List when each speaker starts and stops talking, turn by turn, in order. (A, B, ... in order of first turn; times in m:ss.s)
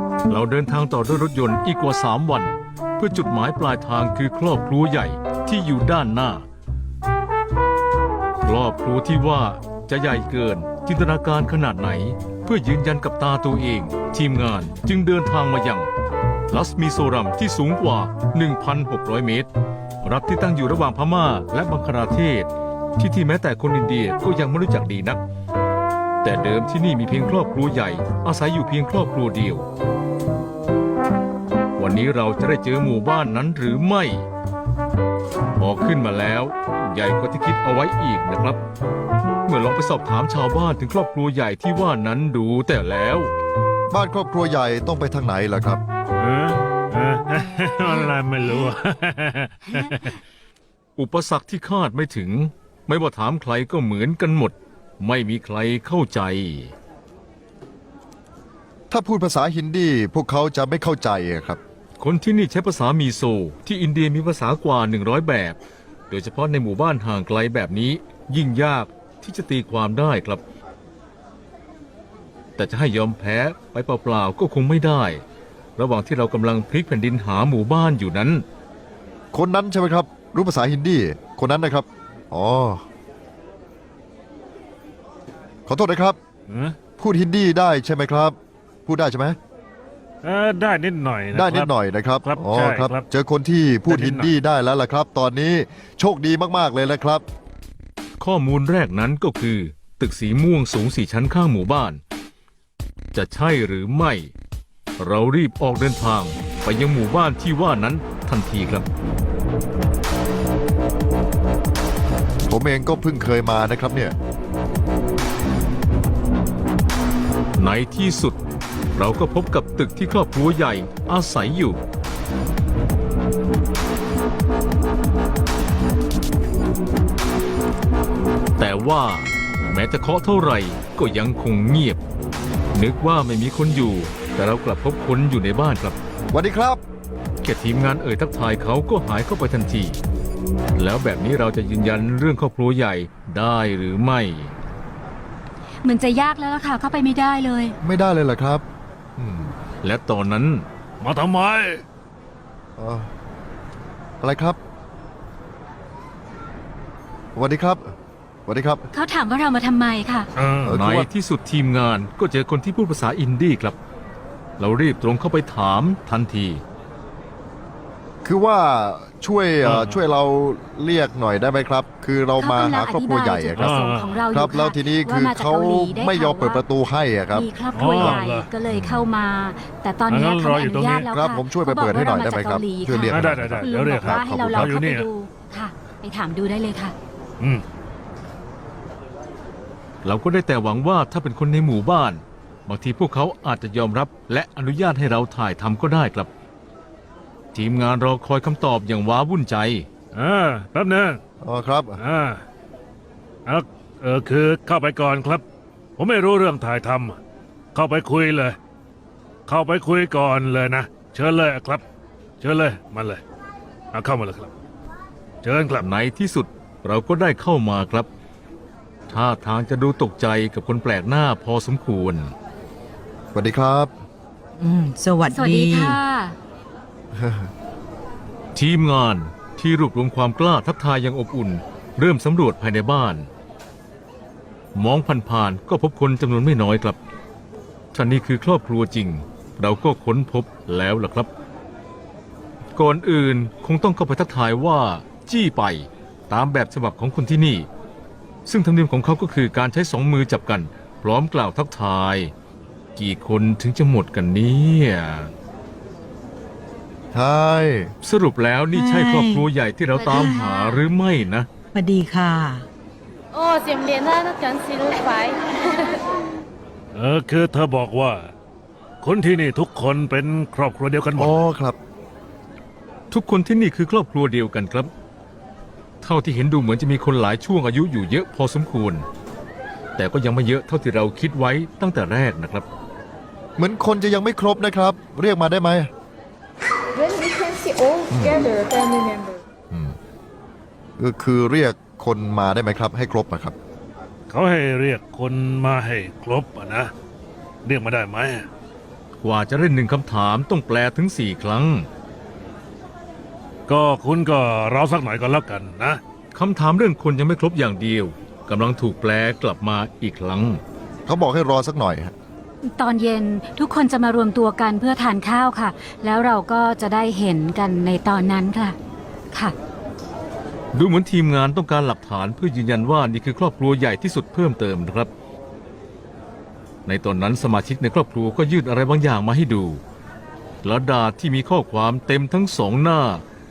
0:00.3-0:06.4 A
0:08.4-0:15.9 A
0:16.5-0:19.5 A
0:20.0-0:25.2 A
0:26.2-0:29.6 A
0:31.8-0:34.2 A
0:35.6-0:38.6 A
0:39.4-0:43.3 A
0:43.9-0:45.8 B
0:46.2-0:50.2 C
0:51.0-0:56.7 A
0:58.9-1:01.6 B
1:02.0-1:05.6 A
1:06.1-1:10.4 A
1:12.6-1:15.2 A
1:15.8-1:18.4 A
1:19.3-1:22.8 B
1:25.7-1:26.2 B
1:26.5-1:26.8 C
1:27.0-1:29.4 B
1:30.2-1:33.0 C
1:31.3-1:37.2 B
1:33.9-1:34.3 C
1:38.2-1:42.0 A
1:43.1-1:44.3 A
1:45.0-1:48.9 A
1:52.5-1:54.1 B
1:57.6-1:58.4 A
1:58.9-2:01.8 A
2:08.6-2:12.0 A
2:12.7-2:16.0 A
2:16.3-2:16.8 B
2:17.4-2:20.0 A
2:20.8-2:24.5 A
2:25.8-2:27.8 D
2:27.8-2:28.6 B
2:29.2-2:29.5 B
2:29.8-2:30.6 A
2:31.0-2:31.8 C
2:32.8-2:33.1 B
2:34.2-2:34.6 B
2:37.3-2:37.9 B
2:38.4-2:38.9 B
2:38.9-2:40.3 D
2:40.4-2:40.8 C
2:40.6-2:41.1 B
2:40.6-2:43.8 A
2:44.6-2:46.6 A
2:48.2-2:59.1 B
2:49.6-2:50.0 C
2:52.4-2:56.6 D
2:53.6-2:54.2 C
2:57.3-3:06.9 D
2:57.7-2:58.5 C
3:00.1-3:01.1 C
3:01.1-3:04.8 B
3:03.0-3:05.1 C
3:10.0-3:16.3 A
3:17.5-3:19.9 A
3:20.1-3:21.2 C
3:21.4-3:22.0 B
3:22.0-3:22.4 C
3:23.4-3:25.4 C
3:26.0-3:27.2 C
3:27.7-3:28.6 C
3:29.5-3:31.8 C
3:32.4-3:33.2 C
3:33.9-3:34.5 C
3:35.4-3:35.8 C
3:35.8-3:38.1 A
3:39.1-3:42.3 A
3:43.3-3:43.9 B
3:44.6-3:46.0 E
3:45.3-3:46.4 D
3:47.1-3:47.5 B
3:48.5-3:53.3 A
3:54.7-3:57.0 A
3:57.9-4:01.3 A
4:02.7-4:07.7 A
4:08.4-4:12.3 A
4:13.0-4:15.3 A
4:17.1-4:17.9 B
4:18.0-4:21.5 A
4:18.7-4:19.4 E
4:20.0-4:20.4 E
4:21.7-4:22.7 E
4:23.3-4:25.4 F
4:26.9-4:28.3 C
4:29.0-4:31.4 C
4:31.2-4:31.8 B
4:33.1-4:34.9 A
4:36.0-4:39.0 A
4:40.0-4:42.7 A
4:43.6-4:45.9 B
4:48.1-4:49.1 B
4:49.7-4:50.0 B
4:51.0-4:53.5 B
4:54.3-4:56.9 C
4:57.6-4:58.5 C
4:59.2-5:01.9 A
5:03.7-5:06.0 C
5:06.3-5:10.6 A
5:11.0-5:12.1 B
5:12.6-5:18.8 D
5:20.7-5:25.1 A
5:26.8-5:29.8 A
5:30.6-5:33.2 A